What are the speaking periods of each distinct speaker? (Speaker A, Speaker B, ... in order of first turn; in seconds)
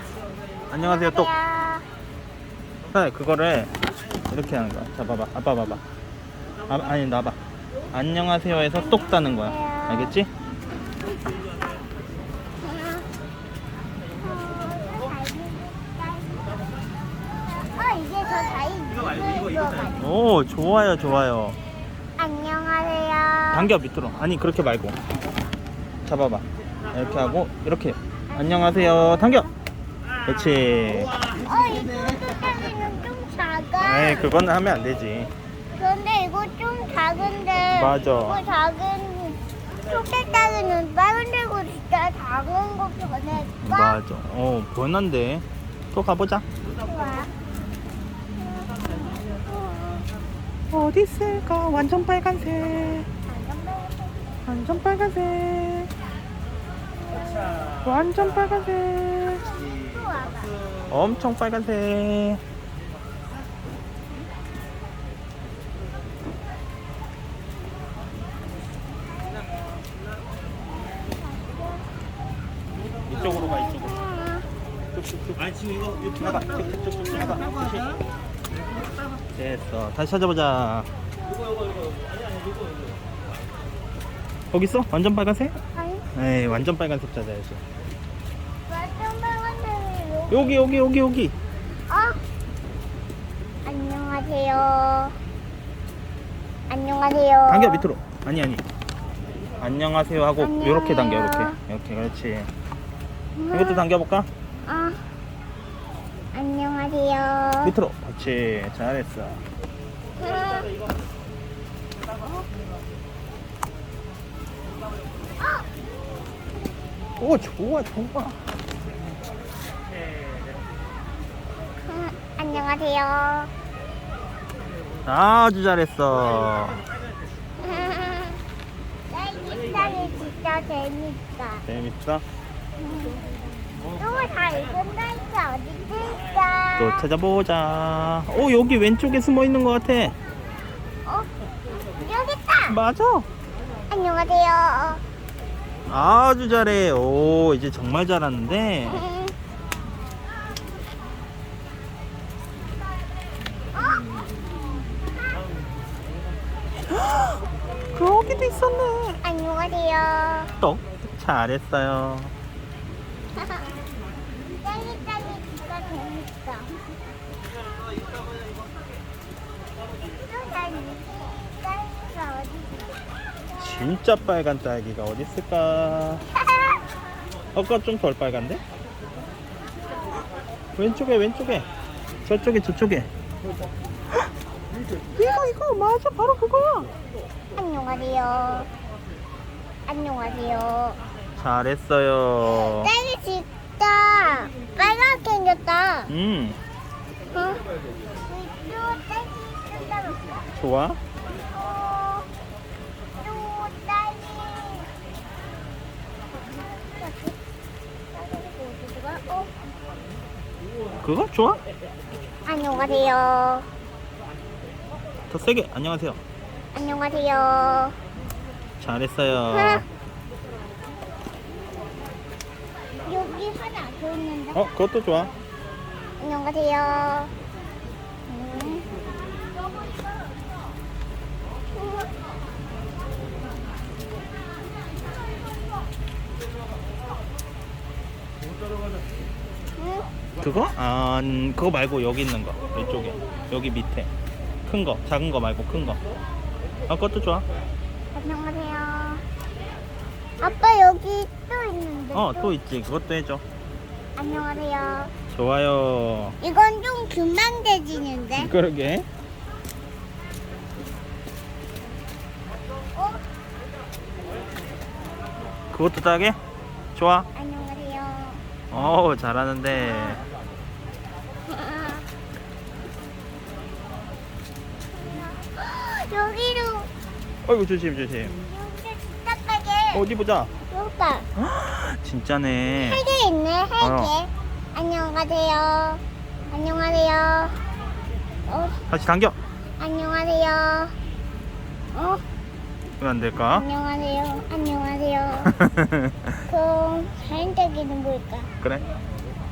Speaker A: 0.7-1.3, 2.9-3.7, 4.3-5.8, 6.7-7.4, 7.9-10.3, 20.0-21.6, 23.5-25.0, 26.1-29.5, 30.2-31.1, 33.8-35.3, 37.7-38.4, 43.6-46.4, 50.7-53.1, 54.5-55.9, 57.8-59.5, 60.9-62.4, 73.1-74.0, 74.9-75.6, 76.1-77.7, 79.3-80.9, 84.5-85.5, 86.1-87.6, 90.3-91.3, 97.5-98.6, 99.6-102.5, 103.5-104.3, 107.6-109.4, 117.2-118.4, 125.0-126.8, 131.7-132.2, 136.8-140.1, 142.7-143.3, 145.9-149.0, 156.9-157.4, 157.9-159.2, 160.6-162.3, 173.6-176.2, 177.5-178.6, 180.8-181.7, 182.2-183.1, 185.2-186.9, 191.3-192.9, 196.1-196.6, 200.6-201.0, 211.0-211.6, 215.3-216.2, 218.8-219.8, 224.5-225.3, 240.4-244.1, 244.7-246.0, 246.9-247.4, 252.1-253.4, 255.3-256.4, 258.4-259.1, 265.7-266.4, 266.9-267.3, 268.7-270.2, 277.4-278.4, 279.9-280.5, 281.4-283.0, 283.8-284.1, 288.9-289.4, 293.0-293.6, 295.4-296.4, 298.6-298.9
Speaker B: 0.8-1.8, 8.7-10.1, 12.6-13.1, 14.2-16.7, 17.4-20.1, 22.2-23.7, 31.4-34.3, 35.8-44.0, 46.8-47.3, 48.4-50.0, 53.2-54.4, 57.0-57.8, 59.3-60.5, 70.8-71.7, 73.1-74.5, 75.8-77.9, 81.3-81.5, 85.7-86.0, 88.7-90.7, 91.9-92.2, 93.6-95.2, 96.7-97.8, 100.4-101.6, 103.3-103.8, 104.6-105.0, 106.3-107.7, 110.2-110.7, 115.4-115.7, 121.8-123.5, 127.6-128.4, 129.1-131.6, 132.8-133.2, 133.9-137.1, 141.0-141.3, 142.0-142.8, 143.9-145.0, 148.9-149.3, 153.7-154.1, 159.2-160.5, 163.3-163.7, 164.6-166.8, 170.1-172.9, 176.5-176.7, 187.5-188.7, 189.8-191.0, 192.6-196.1, 197.3-197.6, 198.2-200.4, 201.3-202.3, 203.2-204.9, 206.6-207.3, 208.1-209.5, 212.4-213.7, 216.7-218.0, 219.5-219.8, 223.0-224.6, 226.2-227.3, 228.3-228.9, 231.7-232.1, 239.8-240.1, 248.1-249.2, 250.4-252.5, 254.2-255.1, 256.4-258.5, 262.9-263.2, 267.3-268.4, 271.5-272.1, 275.2-276.9, 278.4-280.1, 280.7-281.3, 282.8-287.6, 288.5-288.8, 289.8-290.9, 291.9-292.2, 293.5-295.5, 296.4-298.5